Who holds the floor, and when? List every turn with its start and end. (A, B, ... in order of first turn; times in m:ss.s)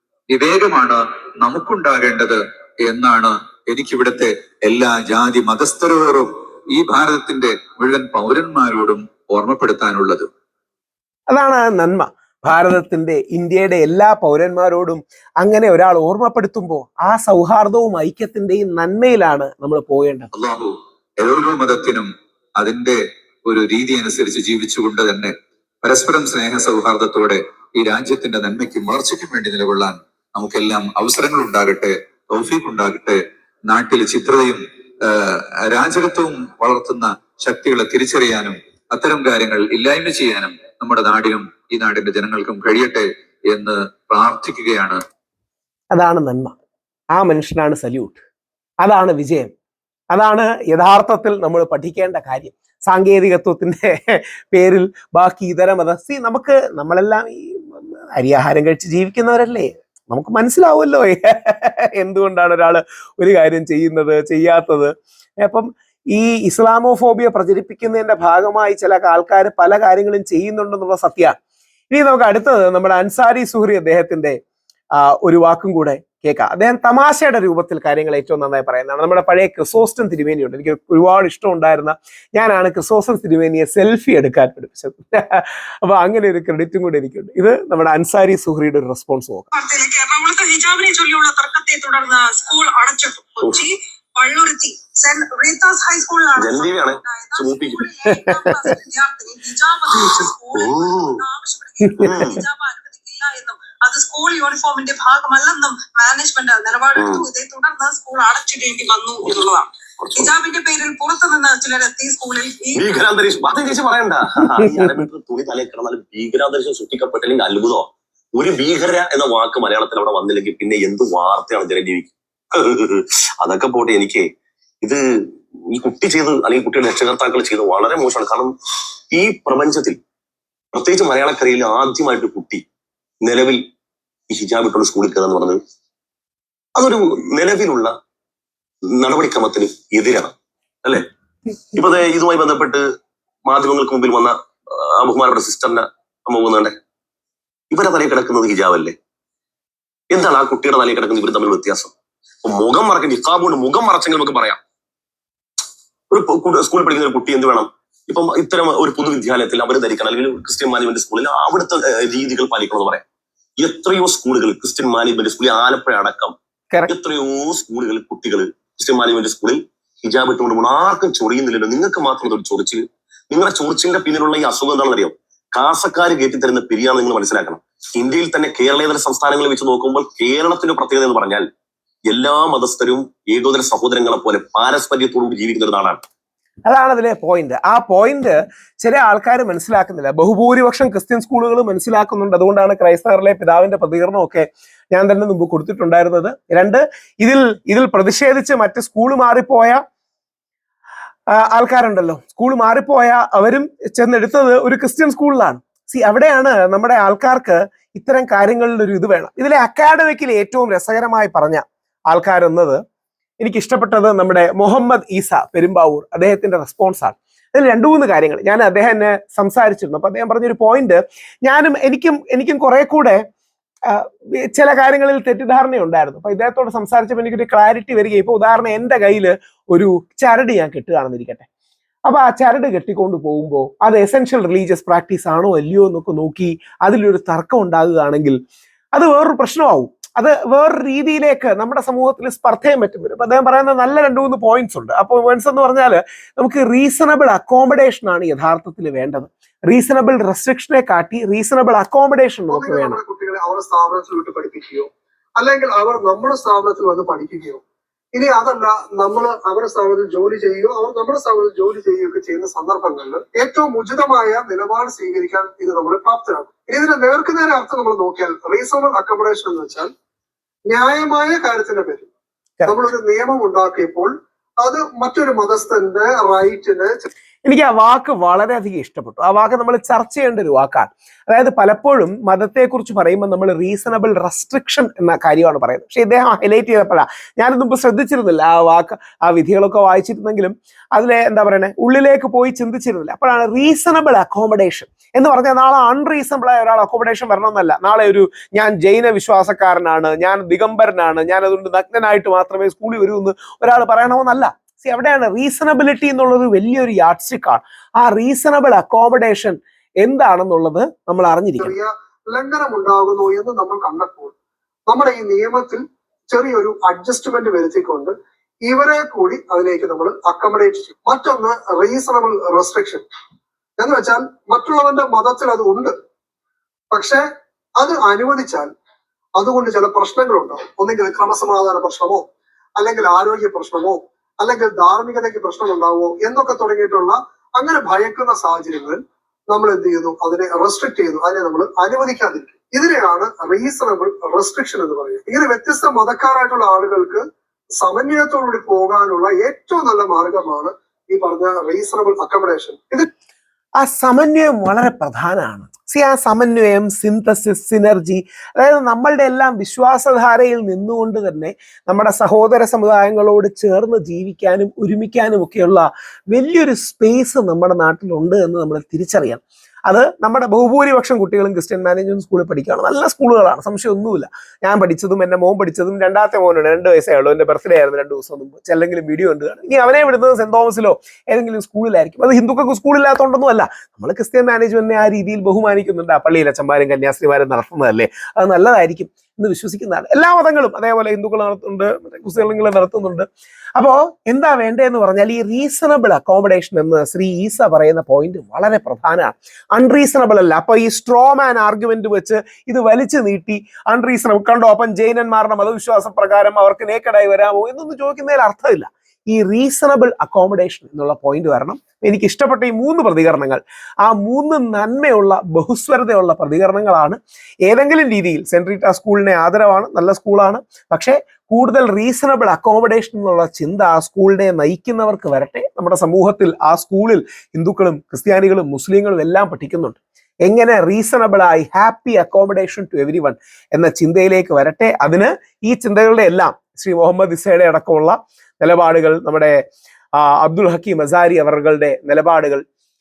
0:00.3-0:10.3 A
0:11.3-0:20.3 B
0:20.3-0:45.0 A
0:45.9-0:46.5 B
0:47.1-0:48.2 B
0:48.8-0:49.5 B
0:50.1-1:11.3 B
1:11.9-1:14.4 B
1:15.0-1:29.5 B
1:29.5-1:52.9 C
1:36.4-1:37.8 D
1:38.0-1:38.6 B
1:40.5-1:41.2 D
1:41.9-1:42.3 B
1:42.0-1:42.4 D
1:47.0-1:47.2 D
1:50.0-1:50.3 D
1:52.8-2:04.2 D
1:54.6-1:55.0 B
2:05.7-2:08.5 D
2:09.1-2:10.0 D
2:10.7-2:12.6 D
2:13.2-2:13.6 D
2:14.3-2:15.6 D
2:16.8-2:17.9 D
2:19.0-2:20.3 D
2:21.7-2:22.8 D
2:23.5-2:26.7 D
2:27.7-2:28.9 D
2:30.1-2:31.9 D
2:32.4-2:34.6 D
2:36.1-2:43.0 D
2:43.6-2:46.3 D
2:46.9-3:01.4 D
3:02.1-3:06.0 D
3:06.7-3:19.8 B
3:21.4-3:32.8 B
3:33.4-3:43.2 B
3:43.9-3:51.4 B
3:52.1-3:58.4 B
3:58.9-4:13.0 B
4:12.5-4:17.6 E
4:18.1-4:29.9 E
4:30.7-4:32.1 E
4:32.6-4:37.0 E
4:37.4-5:11.7 B
5:11.6-5:14.3 E
5:14.9-5:23.0 E
5:23.8-5:25.9 E
5:26.9-5:27.2 E
5:27.8-5:28.7 E
5:29.4-5:47.2 E
5:47.7-5:53.1 E
5:53.8-7:19.6 B
7:20.2-7:22.6 B